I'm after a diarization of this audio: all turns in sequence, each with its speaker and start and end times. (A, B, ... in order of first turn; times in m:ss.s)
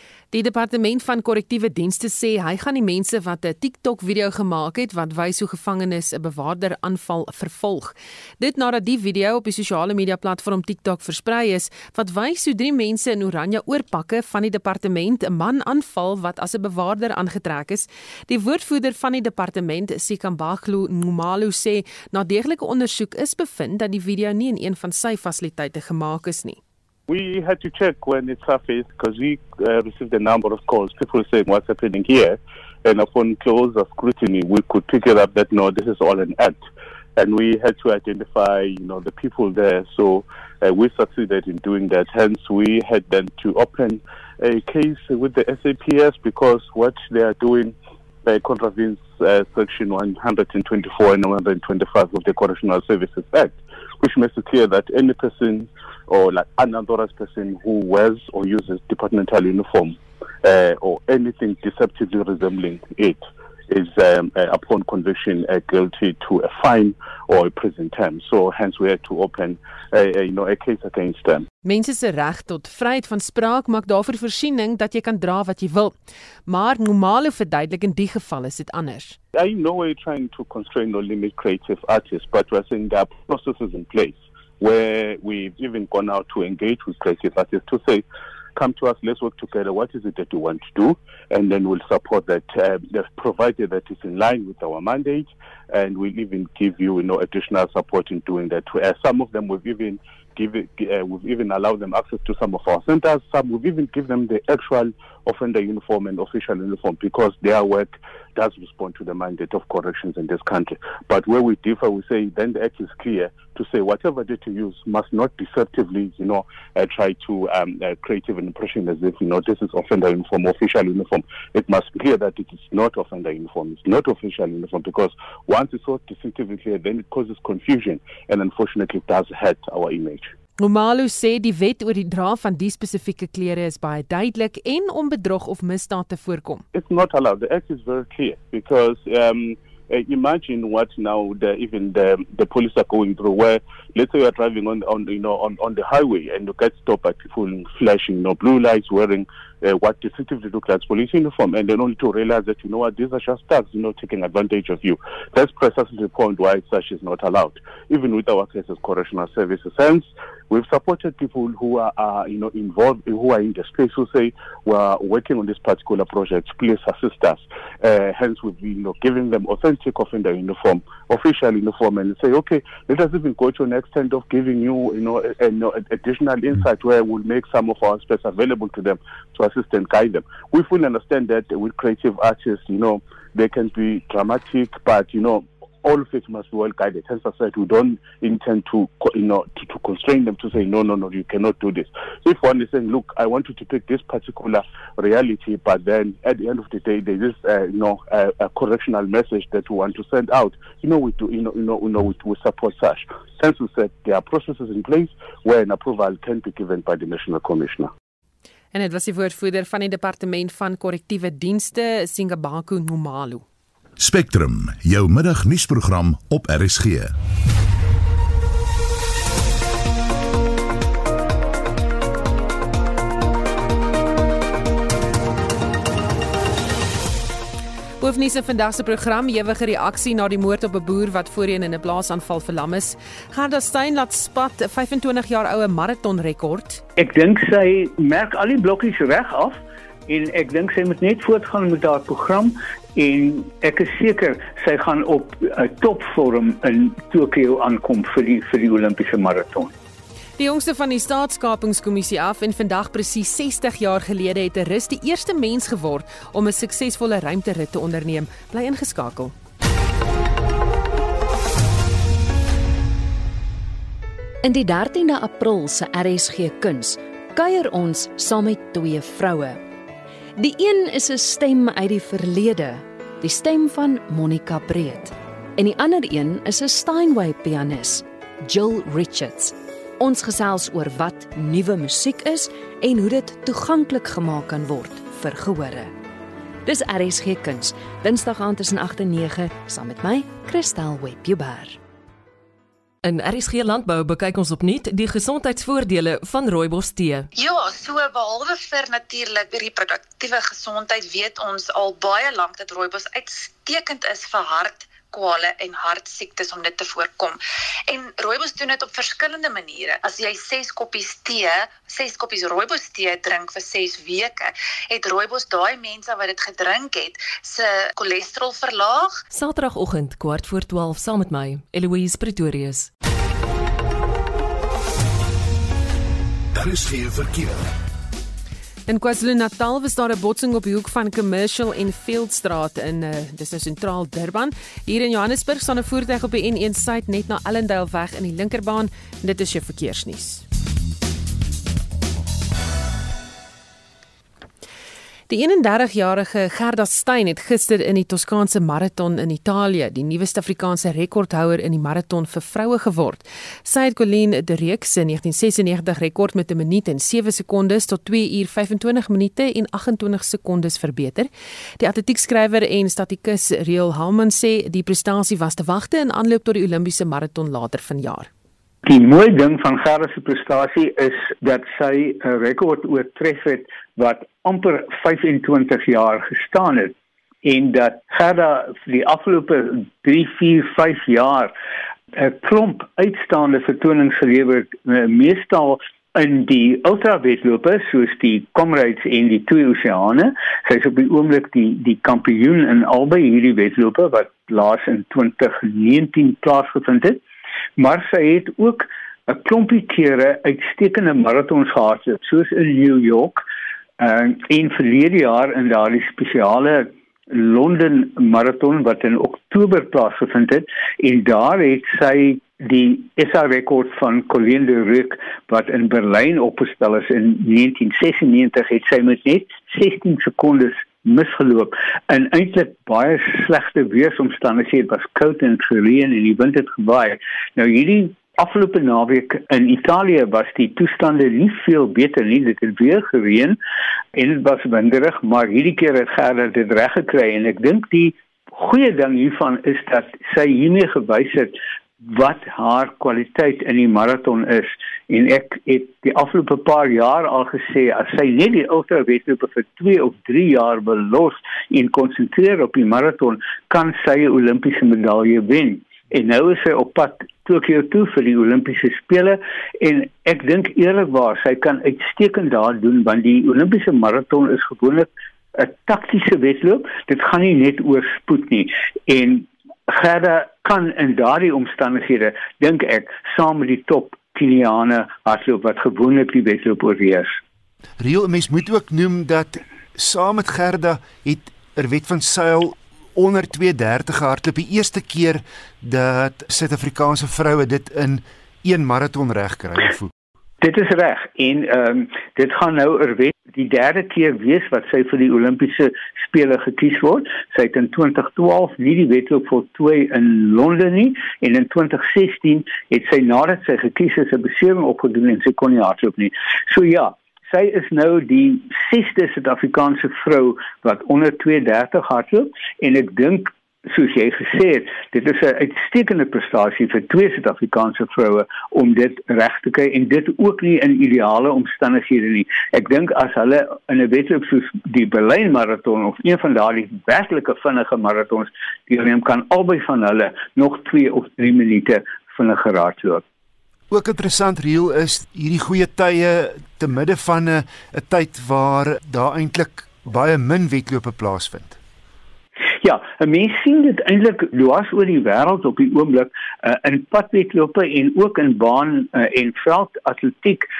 0:00.3-0:26.6 A
0:27.1-0:36.6 B
0:37.2-1:11.5 B
1:11.6-1:19.2 A
1:19.4-1:28.0 B
1:28.6-2:10.3 B
2:10.6-2:16.6 A
2:16.7-3:27.9 B
3:28.7-3:33.4 A
3:34.0-3:37.2 C
3:48.0-3:56.8 A
3:57.0-4:09.7 D
4:10.4-4:19.4 A
4:24.4-4:29.6 E
4:30.4-4:45.9 E
4:46.6-4:51.8 E
4:53.0-4:57.3 F
4:57.3-5:19.2 G
5:19.3-5:22.9 F
5:26.6-5:27.7 C
5:28.9-5:40.4 A
5:45.3-6:08.3 A
6:08.8-6:21.5 D
6:22.1-6:37.2 D
6:37.8-6:43.5 D
6:44.0-7:13.6 D
7:14.2-7:57.4 D
7:58.0-8:10.1 H
8:10.6-8:53.2 D
8:53.9-9:01.8 H
9:02.8-9:10.7 D